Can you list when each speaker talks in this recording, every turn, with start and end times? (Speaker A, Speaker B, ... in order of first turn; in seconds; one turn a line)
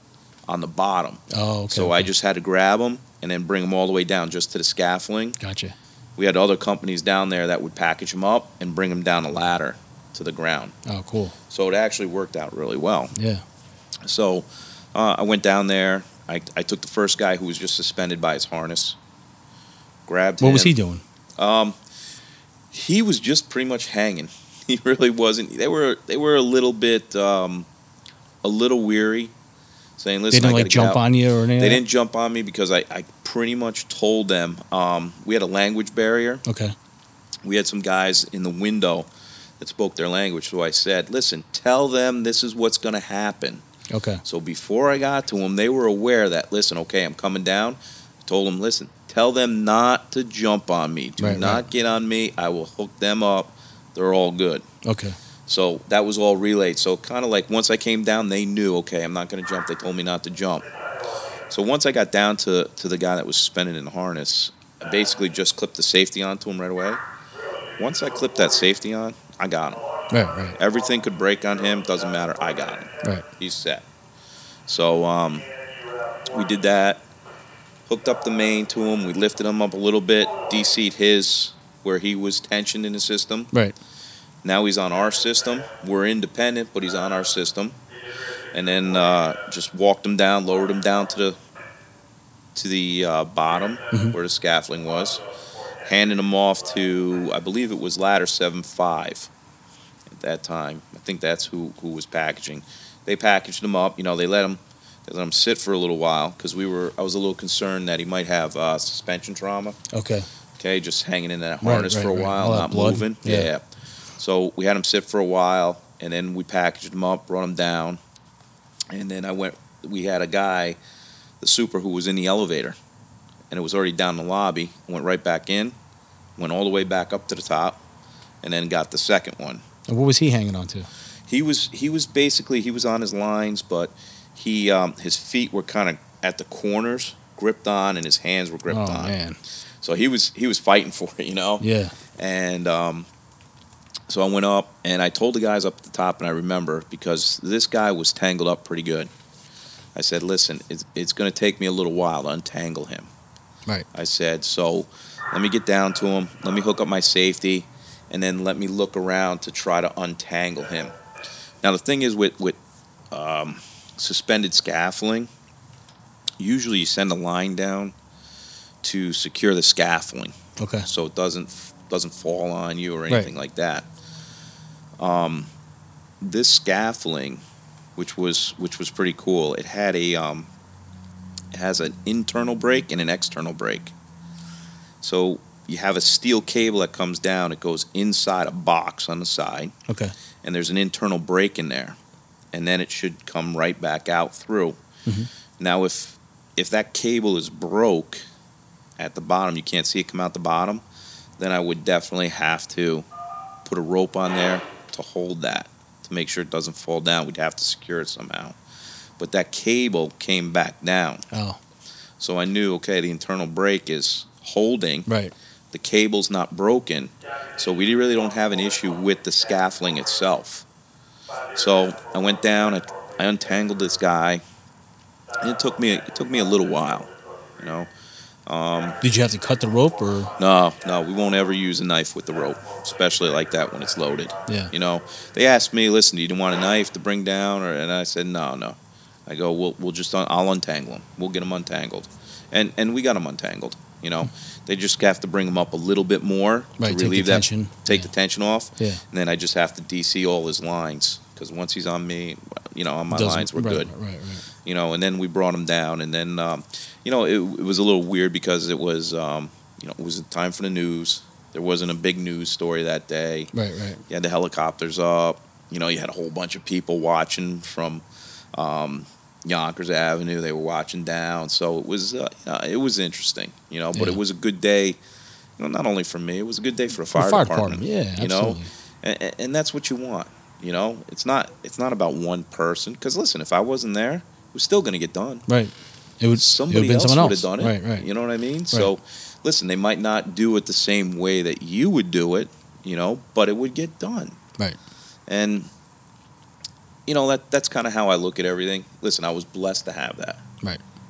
Speaker A: 0.5-5.4
Speaker B: 1.3-2.1
Speaker B: 5.4-5.7
Speaker A: 6.2-10.7
Speaker B: 10.9-11.3
Speaker A: 11.5-13.1
Speaker B: 13.1-13.4
Speaker A: 14.1-19.0
Speaker A: 20.1-20.8
Speaker B: 20.4-21.0
Speaker A: 21.4-21.8
Speaker A: 22.7-27.7
Speaker A: 28.4-29.3
Speaker A: 30.0-31.1
Speaker B: 30.3-31.8
Speaker A: 31.6-36.4
Speaker B: 36.5-36.8
Speaker A: 37.4-43.6
Speaker B: 43.9-44.2
Speaker A: 44.2-54.7
Speaker B: 51.2-51.6
Speaker B: 54.8-55.2
Speaker A: 55.5-60.7
Speaker A: 61.5-67.0
Speaker A: 67.8-69.8
Speaker B: 70.1-70.6
Speaker A: 70.6-73.9
Speaker A: 74.7-75.5
Speaker A: 76.3-77.0
Speaker A: 77.9-83.5
Speaker A: 84.4-87.8
Speaker A: 88.5-91.4
Speaker A: 92.5-95.2
Speaker A: 95.9-99.3
Speaker A: 100.1-109.8
Speaker B: 109.9-110.3
Speaker A: 110.6-113.6
Speaker B: 111.6-113.5
Speaker A: 114.2-118.0
Speaker A: 118.9-120.8
Speaker A: 121.4-122.8
Speaker A: 123.5-125.8
Speaker A: 126.4-127.8
Speaker A: 128.4-129.6
Speaker B: 129.9-130.9
Speaker A: 131.3-139.1
Speaker B: 138.7-139.4
Speaker A: 139.8-141.6
Speaker B: 141.6-141.9
Speaker A: 142.2-143.1
Speaker A: 144.1-149.1
Speaker A: 149.9-153.1
Speaker A: 153.9-160.9
Speaker A: 161.6-162.6
Speaker A: 163.1-165.3
Speaker A: 166.4-167.9
Speaker A: 168.8-170.3
Speaker B: 170.6-170.9
Speaker A: 170.9-173.9
Speaker A: 175.0-175.5
Speaker A: 176.2-177.4
Speaker A: 178.0-180.5
Speaker A: 181.5-183.9
Speaker A: 185.0-189.7
Speaker B: 189.9-190.1
Speaker A: 190.4-192.0
Speaker A: 192.5-194.8
Speaker A: 195.6-198.2
Speaker A: 199.0-200.8
Speaker A: 201.4-203.1
Speaker A: 203.6-208.6
Speaker A: 209.2-211.2
Speaker B: 211.3-211.6
Speaker A: 212.2-215.1
Speaker B: 215.1-215.3
Speaker A: 215.7-220.7
Speaker A: 221.6-224.4
Speaker A: 225.4-227.9
Speaker A: 228.5-229.0
Speaker B: 229.0-230.3
Speaker A: 230.4-253.9
Speaker B: 234.5-234.7
Speaker B: 246.8-248.1
Speaker B: 253.1-254.4
Speaker A: 254.6-263.5
Speaker B: 263.5-264.0
Speaker A: 264.1-275.0
Speaker B: 273.9-274.2
Speaker A: 275.6-285.4
Speaker B: 277.2-278.7
Speaker B: 285.5-288.1
Speaker A: 286.3-294.4
Speaker A: 295.3-295.7
Speaker A: 297.1-300.4